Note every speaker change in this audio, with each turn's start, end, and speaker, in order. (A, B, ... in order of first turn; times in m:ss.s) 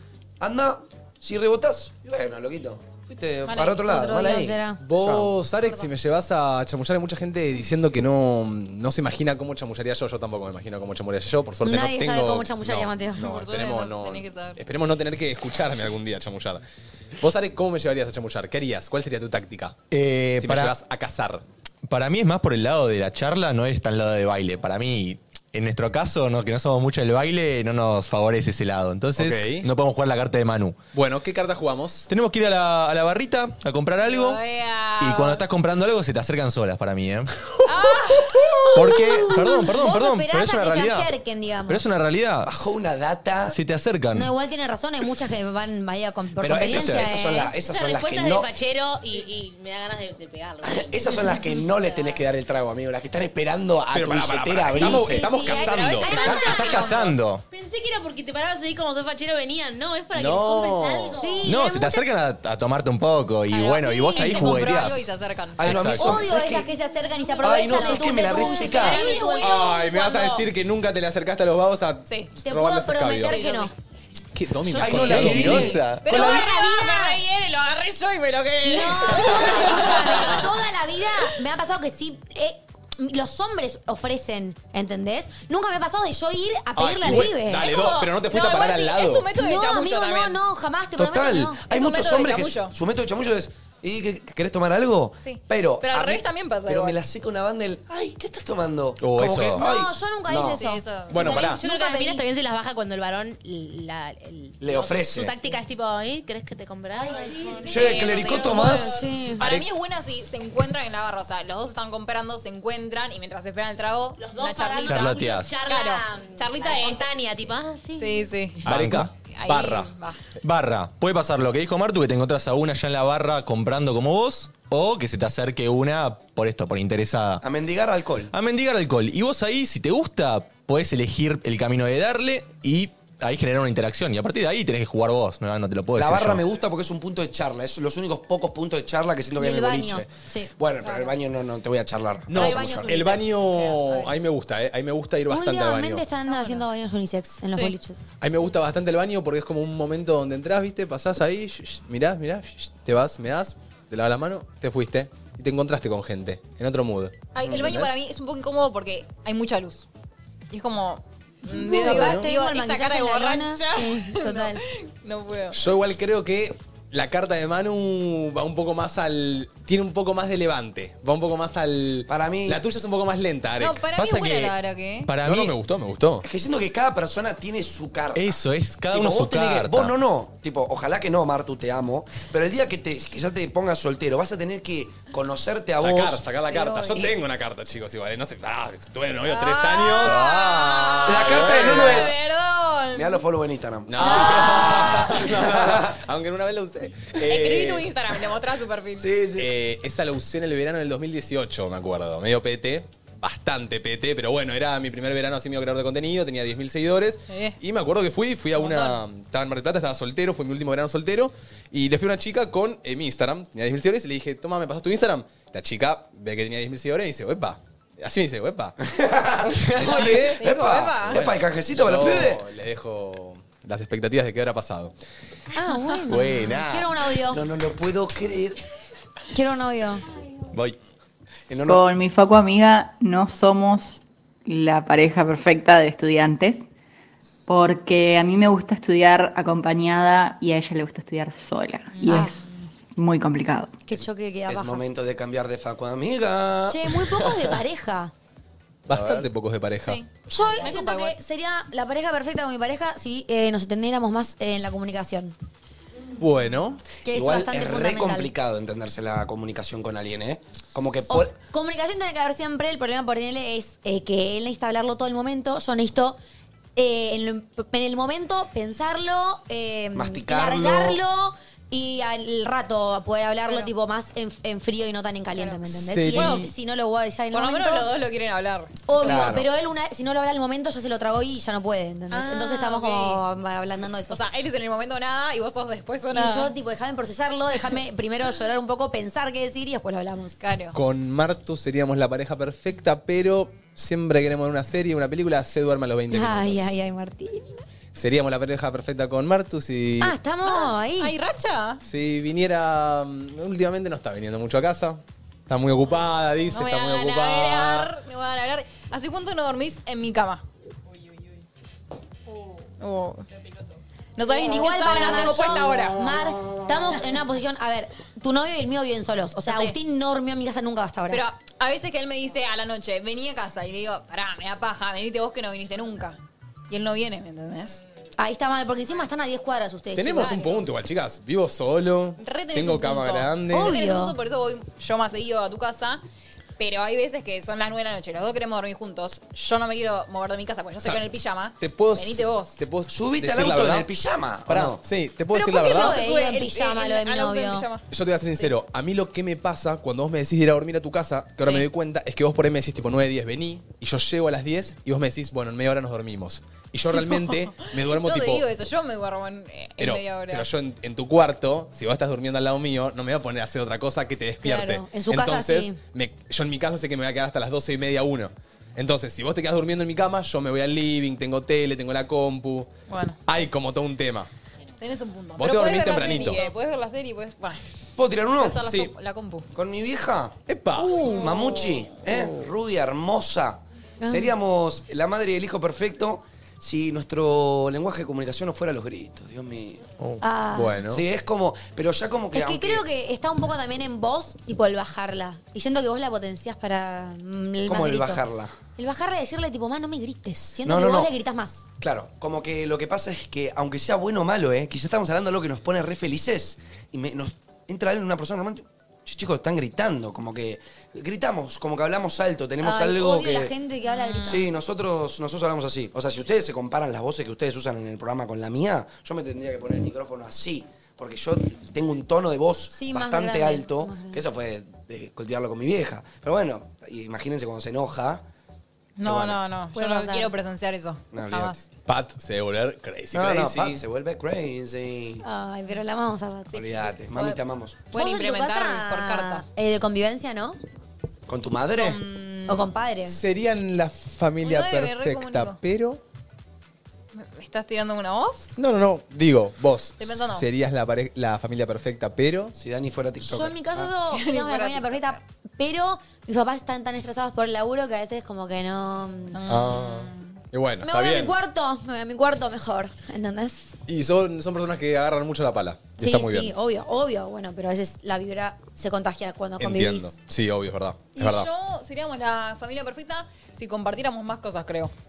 0:00.4-0:05.3 A
0:03.4-0:03.8 B
0:03.8-0:04.8 C
0:04.8-0:16.6 D
0:11.6-0:13.3 C
0:13.2-0:14.6 B
0:17.2-0:19.8 D
0:19.9-0:20.7 E
0:20.4-0:21.4 D
0:21.9-0:30.8 E
0:29.2-0:29.7 D
0:30.9-0:32.1 D
0:32.1-0:34.4 E
0:34.0-0:35.4 B
0:35.0-0:37.5 E
0:37.6-0:39.4 B
0:37.9-0:41.8 C
0:38.7-0:41.1 E
0:41.7-0:42.7 E
0:42.4-0:43.6 A
0:43.5-0:44.3 E
0:44.1-0:47.5 C
0:46.4-0:48.5 A
0:46.6-0:47.1 E
0:47.5-0:52.2 F
0:50.6-0:56.8 A
0:53.9-0:56.2 D
0:54.7-0:56.8 C
0:55.4-0:57.2 B
0:56.1-0:57.4 E
0:57.5-1:01.4 F
1:00.1-1:01.2 D
1:01.1-1:02.0 C
1:01.4-1:05.1 E
1:03.5-1:05.9 B
1:03.8-1:04.7 C
1:05.6-1:06.7 A
1:05.6-1:06.0 E
1:05.9-1:09.7 C
1:07.4-1:09.0 A
1:07.6-1:10.5 B
1:08.7-1:09.2 F
1:09.4-1:13.4 D
1:12.4-1:13.7 C
1:13.2-1:13.7 B
1:14.3-1:15.8 D
1:14.8-1:16.4 A
1:14.8-1:15.2 B
1:14.9-1:16.1 E
1:16.0-1:20.6 B
1:16.0-1:17.2 C
1:18.6-1:27.7 C
1:19.7-1:20.2 D
1:26.8-1:29.3 D
1:27.0-1:30.4 B
1:29.3-1:31.6 C
1:31.0-1:40.6 A
1:31.7-1:32.7 B
1:35.2-1:37.0 B
1:39.0-1:39.6 E
1:39.6-1:42.2 C
1:40.6-1:41.5 B
1:41.1-1:41.6 D
1:41.1-1:49.0 F
1:44.6-1:45.4 A
1:47.6-1:57.0 B
1:47.6-1:49.0 A
1:48.8-1:49.4 C
1:49.4-1:49.7 D
1:54.2-1:58.3 F
1:54.8-1:55.6 E
1:57.9-1:58.7 B
1:58.6-1:59.9 D
1:58.6-1:59.1 E
1:59.3-2:00.2 B
2:00.4-2:07.4 E
2:07.4-2:08.3 A
2:08.3-2:16.4 E
2:15.9-2:23.0 A
2:19.4-2:20.5 C
2:20.8-2:21.1 B
2:22.3-2:26.0 D
2:22.3-2:24.1 B
2:25.3-2:28.0 C
2:26.3-2:26.6 B
2:28.2-2:38.0 D
2:37.3-2:39.9 B
2:40.5-2:45.6 B
2:41.4-2:44.6 C
2:41.8-2:42.3 D
2:45.5-2:53.9 D
2:52.1-2:52.6 A
2:53.6-2:55.1 B
2:54.0-2:54.5 E
2:55.1-2:55.5 E
2:55.2-2:56.2 D
2:56.2-3:06.2 A
2:58.1-2:59.9 E
3:05.8-3:12.2 D
3:09.2-3:13.2 B
3:11.0-3:12.2 A
3:12.9-3:15.9 A
3:13.9-3:18.0 D
3:17.3-3:19.1 B
3:19.0-3:19.5 A
3:19.4-3:38.8 D
3:27.3-3:27.6 B
3:28.5-3:29.0 B
3:38.8-3:42.4 A
3:39.7-3:44.9 D
3:39.8-3:41.3 B
3:45.5-3:47.4 C
3:46.1-3:46.9 E
3:47.3-3:48.6 A
3:49.3-3:50.0 C
3:51.5-3:51.8 A
3:51.7-3:56.7 G
3:57.5-4:03.8 G
4:01.9-4:02.5 B
4:02.0-4:02.4 C
4:03.8-4:04.8 C
4:04.5-4:07.2 A
4:06.7-4:08.1 C
4:08.8-4:10.0 D
4:09.8-4:11.2 B
4:10.3-4:15.3 C
4:16.2-4:16.8 D
4:17.0-4:18.3 C
4:17.1-4:21.3 A
4:21.1-4:26.2 C
4:26.8-4:37.9 C
4:29.9-4:31.0 A
4:35.7-4:36.5 D
4:36.1-4:36.5 B
4:37.3-4:39.4 B
4:38.8-4:44.2 C
4:39.0-4:39.5 A
4:42.1-4:43.2 B
4:44.1-4:46.5 B
4:46.1-4:50.4 C
4:50.4-4:50.8 B
4:50.7-4:56.8 D
4:56.1-4:57.5 C
4:57.9-5:00.2 D
5:00.0-5:01.1 C
5:00.4-5:01.8 B
5:01.8-5:07.9 D
5:06.5-5:10.4 B
5:12.8-5:13.2 B
5:14.2-5:16.0 B
5:14.4-5:21.2 C
5:19.5-5:19.8 B
5:21.1-5:26.2 B
5:26.7-5:27.8 B
5:28.2-5:30.4 C
5:29.9-5:33.7 D
5:30.2-5:30.5 B
5:32.2-5:36.0 B
5:33.5-5:34.2 C
5:36.6-5:42.6 B
5:41.6-5:43.9 D
5:42.9-5:44.8 A
5:44.5-5:46.0 D
5:45.3-5:47.7 C
5:45.6-5:47.8 B
5:47.9-5:58.4 D
5:51.4-5:51.7 B
5:57.7-6:00.5 B
5:59.8-6:12.7 D
6:04.4-6:05.8 C
6:12.9-6:13.2 B
6:13.2-6:14.3 D
6:14.8-6:17.6 B
6:15.4-6:16.4 D
6:18.0-6:18.6 A
6:18.4-6:19.4 B
6:18.6-6:18.9 D
6:19.5-6:20.4 A
6:20.5-6:21.0 D
6:20.8-6:21.6 B
6:21.0-6:29.9 A
6:22.0-6:22.5 D
6:24.0-6:24.3 C
6:30.2-6:30.8 C
6:30.5-6:31.0 D
6:30.9-6:32.8 A
6:32.3-6:38.2 C
6:37.7-6:38.5 A
6:38.8-6:41.6 C
6:40.6-6:41.1 A
6:41.8-6:53.5 A
6:52.6-6:54.4 C
6:53.9-6:54.4 B
6:54.2-7:08.2 A
7:02.7-7:04.2 C
7:09.0-7:11.6 B
7:09.0-7:09.4 A
7:09.7-7:10.3 C
7:11.1-7:11.5 A
7:11.8-7:13.8 D
7:13.1-7:15.2 A
7:15.2-7:16.6 C
7:16.5-7:17.8 A
7:16.5-7:19.4 B
7:17.9-7:20.6 C
7:21.3-7:22.0 A
7:21.8-7:22.7 B
7:22.5-7:23.2 C
7:23.1-7:26.0 D
7:24.4-7:25.6 B
7:27.1-7:28.5 B
7:28.6-7:32.5 D
7:30.0-7:30.4 B
7:32.5-7:33.9 A
7:33.2-7:39.4 C
7:34.1-7:35.2 B
7:39.3-7:40.4 B
7:39.5-7:41.3 D
7:40.8-7:43.8 C
7:43.9-7:46.5 D
7:46.0-7:50.1 C
7:49.6-7:51.5 D
7:51.2-7:54.9 B